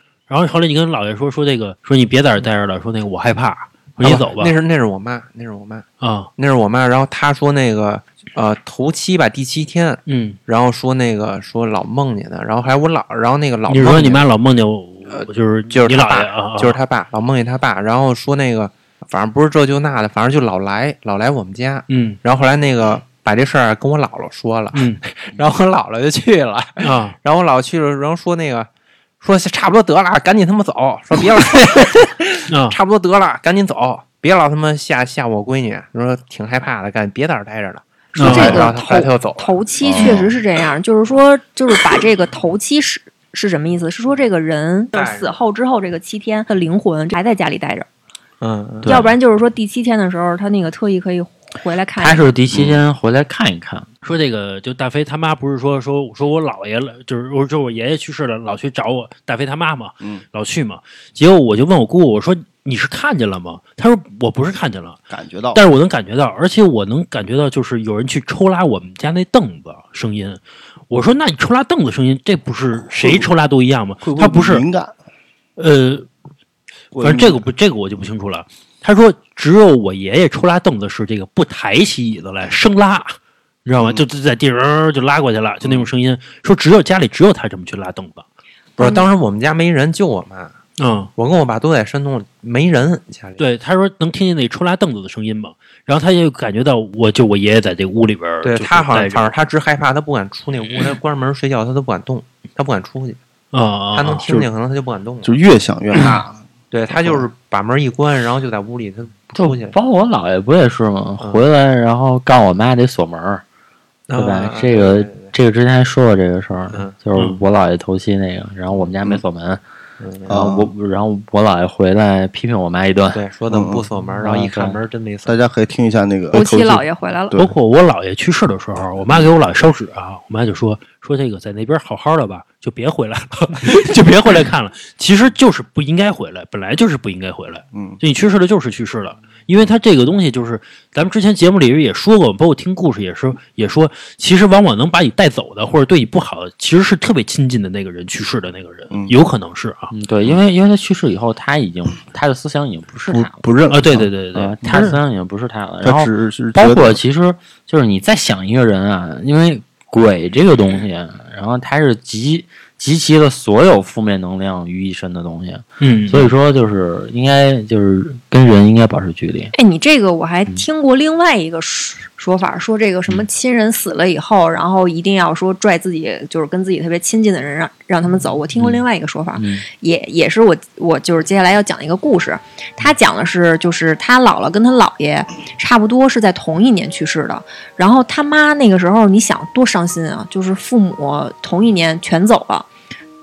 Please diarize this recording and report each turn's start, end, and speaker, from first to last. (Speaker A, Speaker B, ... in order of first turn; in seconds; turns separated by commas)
Speaker A: 0.3-4.5, Speaker B: 4.0-5.9, Speaker A: 6.0-6.3, Speaker B: 6.4-14.2, Speaker A: 10.1-10.4, Speaker A: 13.7-16.8, Speaker B: 15.1-28.7, Speaker A: 21.9-22.2, Speaker A: 24.7-25.0, Speaker A: 26.8-27.2, Speaker B: 29.2-40.1, Speaker A: 32.5-32.8, Speaker C: 38.1-47.9, Speaker A: 38.2-38.7, Speaker D: 39.8-40.3, Speaker B: 44.9-45.4, Speaker B: 48.4-48.9, Speaker E: 48.8-49.1, Speaker C: 48.9-52.3, Speaker E: 52.0-53.9, Speaker D: 52.5-52.8, Speaker A: 54.0-65.0, Speaker D: 65.1-65.6, Speaker A: 65.5-74.7, Speaker D: 73.0-73.3, Speaker D: 74.0-74.9, Speaker A: 75.6-76.1, Speaker D: 76.9-77.4, Speaker A: 77.0-88.2, Speaker D: 83.8-84.0, Speaker B: 88.8-90.6, Speaker C: 88.8-89.0, Speaker A: 90.8-91.1, Speaker B: 91.2-93.4, Speaker A: 93.4-99.3, Speaker B: 98.4-103.2, Speaker A: 103.5-104.3, Speaker B: 103.9-105.4, Speaker D: 105.2-107.3, Speaker B: 106.7-109.8, Speaker E: 109.3-113.4, Speaker B: 114.1-115.3, Speaker E: 114.2-119.6, Speaker B: 116.7-117.2, Speaker B: 120.0-120.3, Speaker E: 120.3-123.2, Speaker D: 120.3-120.7, Speaker B: 123.1-125.4, Speaker D: 123.5-123.9, Speaker E: 124.2-124.8, Speaker D: 125.3-127.5, Speaker C: 126.3-127.4, Speaker A: 127.3-149.9, Speaker D: 137.7-138.0, Speaker E: 149.9-153.4, Speaker D: 153.1-154.9, Speaker A: 153.7-155.0, Speaker E: 154.4-169.5, Speaker D: 155.8-157.0, Speaker A: 165.8-166.3, Speaker C: 169.5-192.7, Speaker E: 179.4-179.7